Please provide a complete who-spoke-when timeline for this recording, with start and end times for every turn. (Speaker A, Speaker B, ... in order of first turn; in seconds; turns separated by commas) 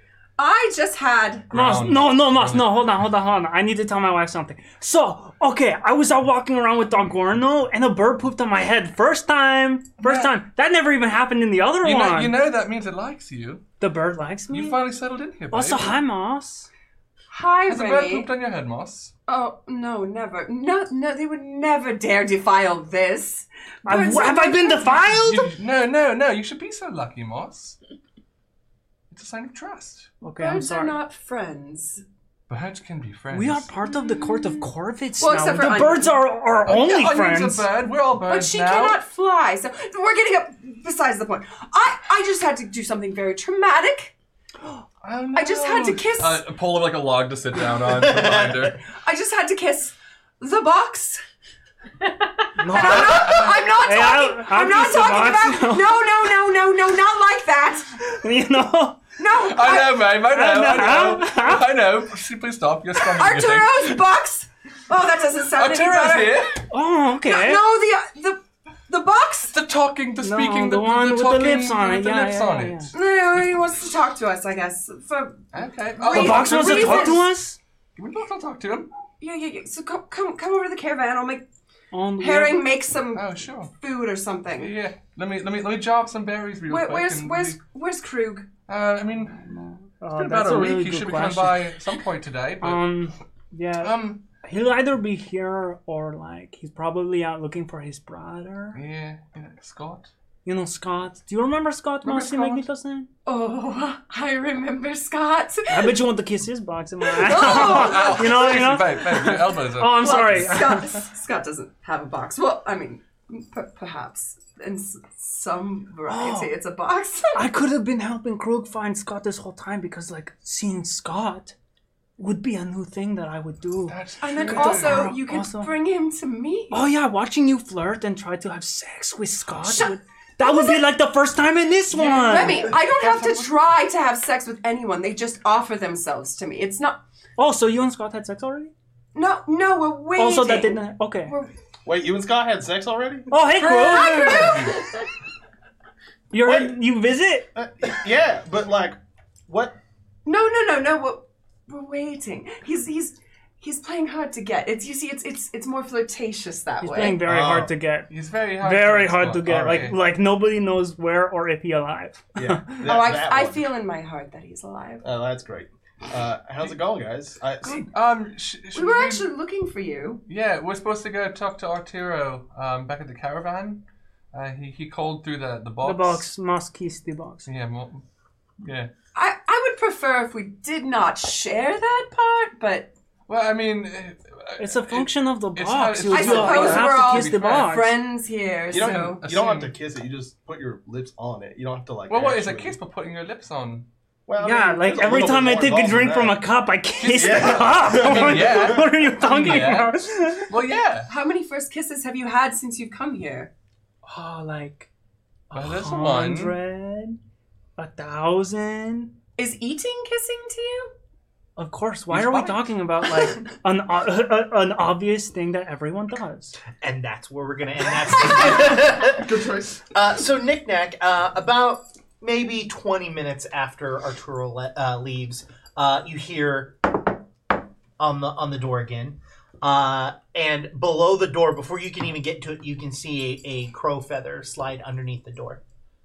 Speaker A: 0.4-1.5, Speaker B: 1.5-2.8, Speaker C: 1.5-12.4, Speaker B: 10.0-10.3, Speaker B: 11.8-13.6, Speaker C: 13.8-14.8, Speaker B: 14.5-15.9, Speaker C: 15.5-16.7, Speaker A: 17.3-18.3, Speaker B: 17.7-19.1, Speaker A: 19.3-25.0, Speaker C: 23.9-25.5, Speaker B: 25.0-27.8, Speaker B: 29.1-30.1, Speaker C: 30.2-31.0, Speaker A: 30.4-32.0, Speaker B: 32.5-33.7, Speaker C: 33.3-37.7, Speaker A: 33.9-34.6, Speaker A: 35.2-36.2, Speaker B: 36.6-39.0, Speaker A: 38.1-44.1, Speaker B: 45.0-48.8, Speaker A: 45.3-46.4, Speaker D: 47.8-48.8, Speaker A: 49.0-51.2, Speaker C: 52.6-56.0, Speaker A: 52.7-58.0, Speaker B: 52.7-53.7, Speaker C: 58.0-59.0, Speaker A: 59.2-60.1, Speaker B: 59.3-64.0, Speaker C: 60.1-61.7, Speaker A: 62.9-66.5, Speaker B: 65.5-66.6, Speaker C: 66.7-67.6, Speaker A: 67.2-69.5, Speaker B: 69.5-73.5, Speaker C: 70.2-72.9, Speaker A: 72.9-77.3, Speaker B: 75.5-77.3, Speaker C: 76.1-77.6, Speaker B: 78.0-78.9, Speaker A: 79.2-81.5, Speaker C: 81.9-82.7, Speaker A: 82.2-84.8, Speaker B: 83.1-83.7, Speaker B: 84.5-87.6, Speaker A: 86.7-88.5, Speaker B: 88.7-92.9, Speaker C: 90.0-91.7, Speaker C: 92.6-98.8, Speaker B: 93.8-94.2, Speaker B: 98.7-100.1, Speaker C: 100.4-103.1, Speaker B: 102.0-102.6, Speaker A: 103.2-106.0, Speaker C: 105.7-111.0, Speaker A: 107.0-108.7, Speaker B: 107.3-110.6, Speaker A: 110.0-117.5, Speaker C: 116.1-116.5, Speaker C: 117.3-121.5, Speaker C: 122.2-125.7, Speaker B: 123.9-125.1, Speaker A: 124.2-126.8, Speaker C: 126.7-132.7, Speaker A: 129.7-130.8, Speaker A: 131.9-137.0, Speaker B: 131.9-133.5, Speaker C: 137.4-138.7, Speaker A: 139.1-141.5, Speaker C: 140.2-141.3, Speaker E: 141.8-143.3, Speaker C: 143.3-144.7, Speaker A: 143.7-144.7, Speaker C: 146.3-147.5, Speaker E: 146.4-146.7, Speaker E: 147.5-149.0, Speaker E: 149.5-149.7, Speaker A: 150.2-157.2, Speaker C: 156.8-162.8, Speaker E: 157.2-157.7, Speaker B: 158.1-160.0, Speaker E: 159.5-159.9, Speaker E: 162.3-163.6, Speaker A: 162.8-165.0, Speaker E: 165.0-167.8, Speaker B: 167.7-169.3, Speaker A: 168.7-170.2, Speaker B: 170.3-176.2, Speaker C: 175.8-177.5, Speaker B: 177.4-178.0, Speaker B: 178.6-178.9, Speaker A: 179.1-182.9, Speaker B: 183.3-187.9, Speaker C: 184.6-187.9, Speaker A: 186.1-189.2, Speaker E: 188.7-192.8, Speaker B: 188.8-189.7, Speaker B: 192.1-193.9, Speaker E: 194.3-196.4, Speaker C: 194.4-200.5, Speaker B: 197.0-201.1, Speaker E: 197.1-198.9, Speaker A: 201.1-203.5, Speaker C: 204.1-204.9, Speaker C: 205.5-207.2, Speaker B: 205.5-206.6, Speaker C: 207.8-209.1, Speaker A: 209.4-210.9, Speaker C: 211.6-216.6, Speaker B: 212.1-212.7, Speaker D: 216.8-227.1, Speaker E: 219.1-219.8, Speaker D: 228.0-235.6